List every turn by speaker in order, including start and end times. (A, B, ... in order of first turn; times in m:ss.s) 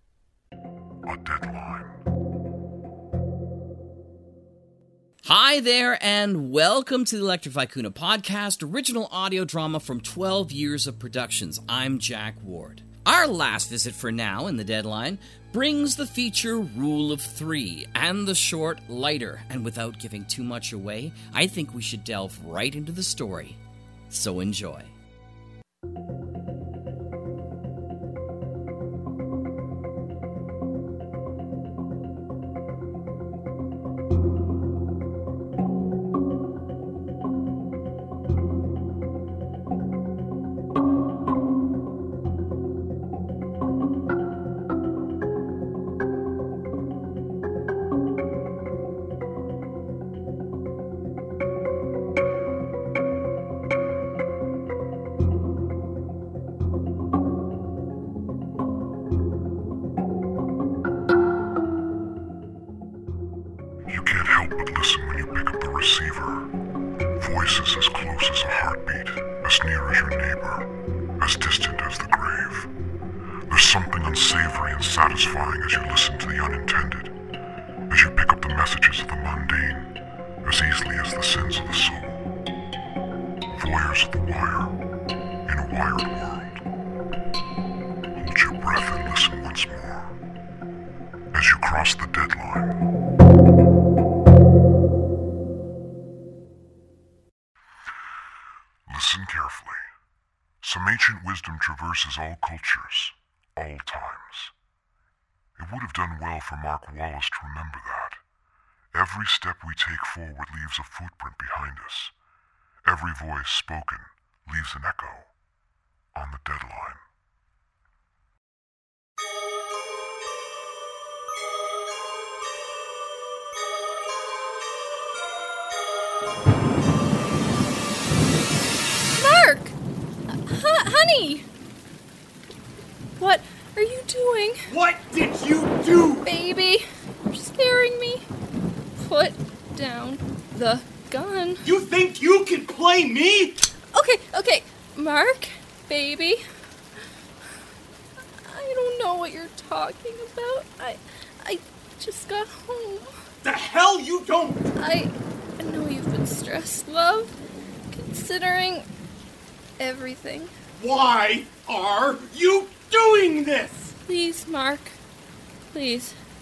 0:01.1-0:01.9 A
0:05.2-0:23.6 B
0:24.1-0:24.9 B
1:03.9-1:06.5 A
1:07.2-1:10.7 A
1:11.2-1:12.7 A
1:13.5-1:17.1 A
1:17.9-1:19.9 A
1:20.4-1:22.2 A
1:23.5-1:24.7 A
1:25.5-1:26.6 A
1:28.2-1:30.2 A
1:31.3-1:32.8 A
1:38.9-1:39.8 A
1:40.6-1:44.5 A
1:45.6-1:48.2 A
1:48.9-1:52.1 A
1:52.8-1:55.3 A
1:56.1-1:57.0 A
2:09.2-2:09.8 C
2:10.3-2:11.5 C
2:13.2-2:14.7 C
2:14.7-2:16.3 D
2:16.2-2:18.3 C
2:19.0-2:21.7 C
2:21.6-2:23.7 D
2:23.9-2:26.4 C
2:28.4-2:33.1 C
2:33.4-2:34.6 D
2:34.8-2:37.4 C
2:37.9-2:38.9 C
2:39.8-2:40.5 C
2:40.8-2:44.0 D
2:44.1-2:45.0 C
2:45.7-2:46.2 C